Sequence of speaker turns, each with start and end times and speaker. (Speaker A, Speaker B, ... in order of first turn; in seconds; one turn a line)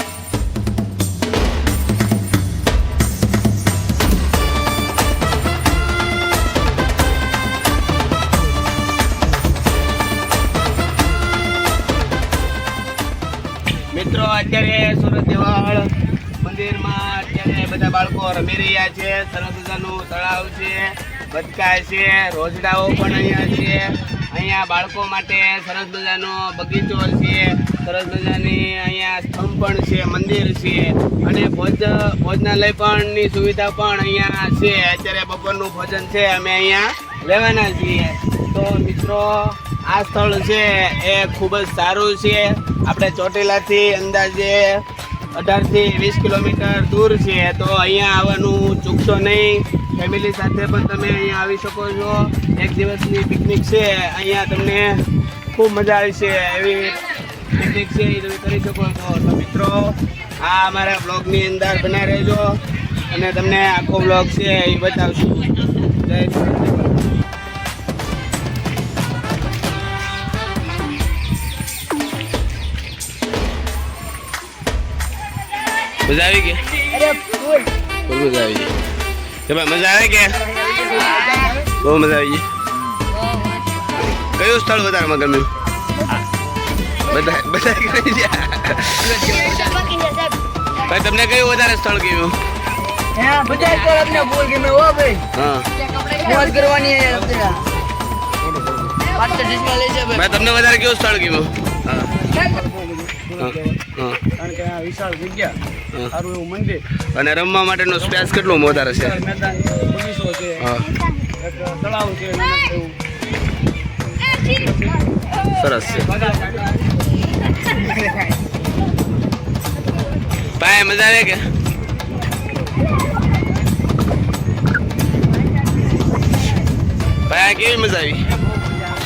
Speaker A: 13.9-44.8
Speaker A: 45.3-55.0
Speaker A: 55.5-62.6
Speaker A: 63.1-66.9
Speaker A: 76.0-76.6
Speaker B: 76.9-77.7
Speaker A: 78.0-78.7
Speaker A: 79.5-82.4
Speaker B: 80.6-81.6
Speaker A: 84.1-85.5
Speaker A: 87.0-90.0
Speaker B: 89.1-90.3
Speaker A: 90.8-92.4
Speaker B: 93.1-95.2
Speaker A: 95.3-95.7
Speaker B: 96.0-97.7
Speaker B: 99.1-100.2
Speaker A: 100.1-102.3
Speaker B: 102.3-103.4
Speaker A: 103.4-104.3
Speaker B: 104.4-105.5
Speaker A: 105.9-109.6
Speaker B: 106.2-106.7
Speaker B: 109.5-110.6
Speaker A: 110.6-111.0
Speaker B: 111.5-112.9
Speaker A: 115.5-116.7
Speaker A: 120.5-121.5
Speaker A: 127.3-128.2